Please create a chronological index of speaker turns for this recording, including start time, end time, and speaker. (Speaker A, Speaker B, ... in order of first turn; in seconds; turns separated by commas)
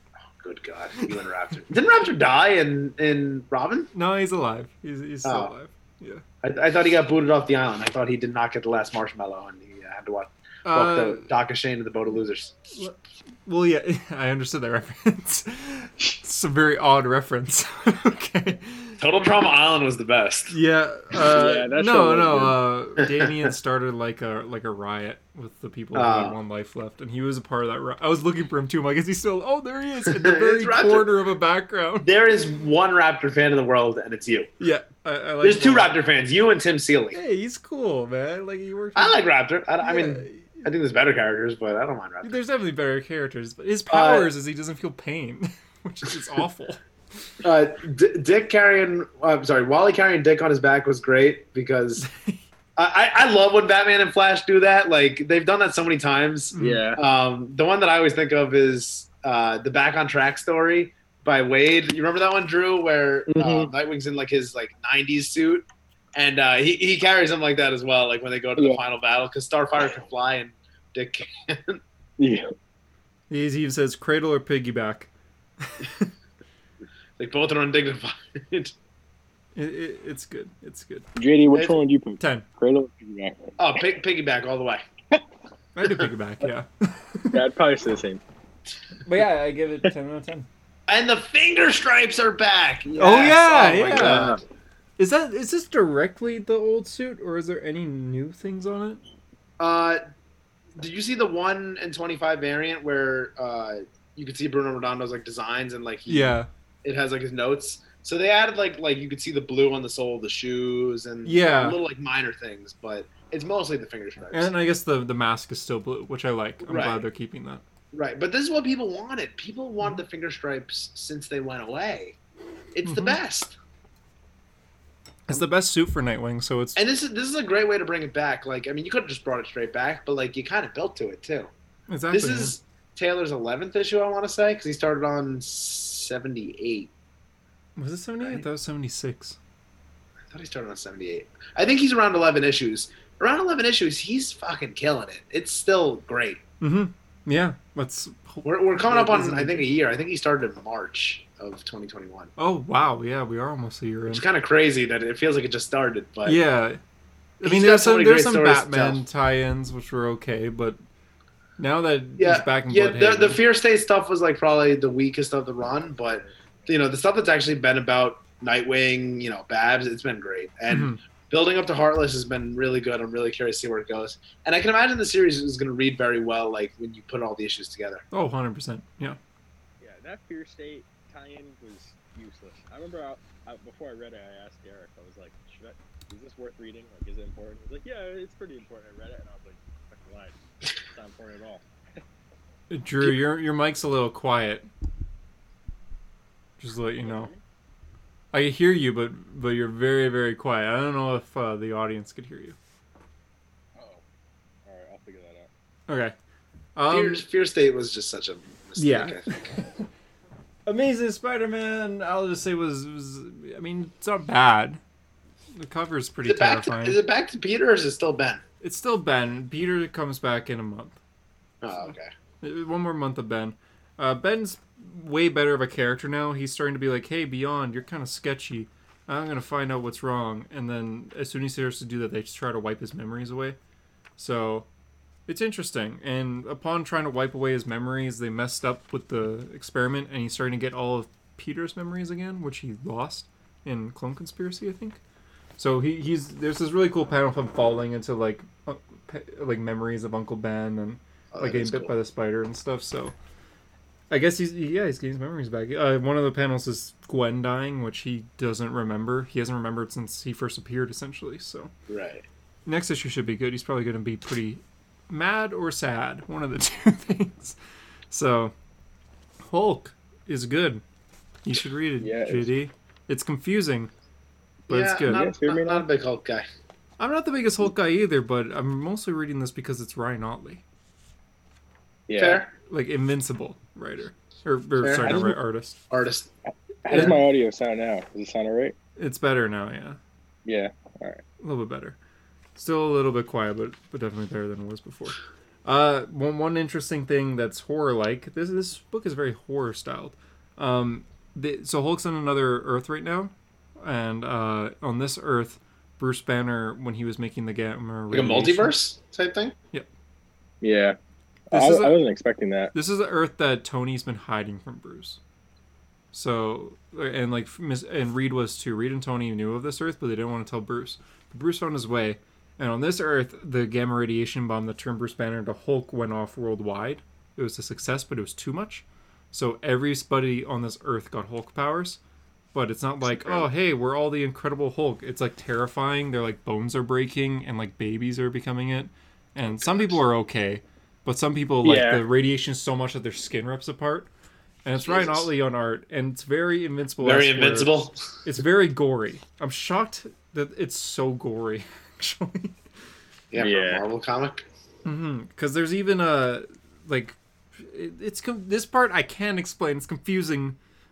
Speaker A: 0.3-3.9, Speaker B: 3.9-6.2, Speaker A: 5.2-5.5, Speaker A: 6.4-12.6, Speaker B: 10.6-11.3, Speaker B: 12.7-19.0, Speaker A: 19.0-20.5, Speaker B: 20.5-32.1, Speaker C: 21.3-22.6, Speaker A: 23.0-23.5, Speaker A: 25.9-26.4, Speaker A: 30.0-31.1, Speaker A: 32.0-34.5, Speaker B: 34.6-35.9, Speaker A: 35.4-37.2, Speaker B: 37.1-39.2, Speaker A: 39.0-42.3, Speaker B: 39.8-40.7, Speaker B: 42.2-46.8, Speaker A: 43.9-44.3, Speaker A: 47.4-52.0, Speaker B: 52.0-52.4, Speaker A: 52.8-65.6, Speaker B: 56.5-56.8, Speaker C: 56.6-57.0, Speaker C: 63.3-63.7, Speaker A: 66.2-71.8, Speaker C: 72.2-72.5, Speaker B: 73.3-75.1, Speaker B: 75.6-76.1, Speaker A: 77.2-78.7, Speaker B: 79.5-81.1, Speaker C: 81.2-83.4, Speaker B: 82.2-82.4, Speaker A: 83.6-84.8, Speaker B: 85.8-87.4, Speaker C: 87.3-88.2, Speaker B: 89.0-90.5, Speaker A: 90.9-94.4, Speaker B: 93.0-94.4, Speaker C: 93.9-94.4, Speaker B: 95.0-99.0, Speaker A: 99.6-100.0, Speaker A: 100.8-114.5, Speaker B: 106.1-106.5, Speaker B: 111.2-111.8, Speaker B: 114.3-117.6, Speaker A: 116.6-117.0, Speaker A: 117.9-122.2, Speaker A: 122.7-123.5, Speaker B: 122.8-123.2, Speaker B: 125.3-126.8, Speaker A: 126.8-131.5, Speaker B: 131.9-132.5, Speaker A: 132.1-136.9, Speaker B: 137.8-139.4, Speaker A: 140.3-146.4, Speaker B: 146.6-149.7, Speaker A: 148.4-152.3, Speaker B: 152.4-154.2, Speaker A: 154.1-156.4, Speaker B: 156.2-156.8, Speaker B: 157.4-160.8, Speaker A: 157.4-159.0, Speaker B: 161.6-163.4, Speaker A: 162.2-178.0, Speaker B: 170.7-171.0, Speaker B: 178.1-179.2, Speaker C: 179.8-191.6, Speaker B: 192.7-194.7, Speaker B: 196.6-197.3, Speaker C: 197.0-197.4, Speaker B: 198.3-202.6, Speaker C: 203.8-204.0, Speaker C: 204.7-205.5, Speaker B: 205.9-206.1, Speaker B: 206.8-207.2, Speaker A: 206.9-209.4, Speaker B: 208.8-209.8, Speaker B: 210.7-214.8, Speaker B: 215.6-217.0, Speaker A: 216.3-218.4, Speaker B: 218.6-221.0, Speaker A: 221.6-222.1, Speaker B: 221.8-233.6, Speaker B: 234.2-234.7, Speaker B: 235.3-245.0, Speaker B: 245.6-253.2, Speaker A: 251.3-251.9, Speaker B: 254.1-261.7, Speaker A: 261.9-262.2, Speaker B: 262.6-267.6, Speaker B: 268.1-268.5, Speaker B: 269.4-270.8, Speaker B: 271.4-273.9, Speaker C: 272.0-272.5, Speaker B: 274.7-275.2, Speaker A: 274.7-276.4, Speaker C: 275.1-275.8, Speaker B: 277.0-280.6, Speaker C: 282.1-282.4, Speaker A: 282.1-282.5, Speaker B: 282.7-285.8, Speaker A: 284.8-285.4, Speaker A: 285.9-286.3, Speaker C: 286.8-288.8, Speaker A: 286.9-287.2, Speaker B: 286.9-287.2, Speaker B: 289.0-290.0, Speaker C: 290.4-291.2, Speaker B: 291.4-292.0, Speaker B: 292.5-308.7, Speaker A: 308.1-309.6, Speaker C: 310.6-311.0, Speaker C: 311.5-312.7, Speaker B: 311.5-312.0, Speaker B: 312.7-315.2, Speaker B: 316.1-332.0, Speaker B: 332.5-344.1, Speaker A: 333.2-333.4, Speaker A: 339.5-339.9, Speaker C: 341.6-342.0, Speaker B: 344.6-352.6, Speaker A: 344.8-345.3, Speaker A: 347.0-347.9, Speaker A: 353.3-354.4, Speaker C: 353.4-353.8, Speaker B: 354.8-360.6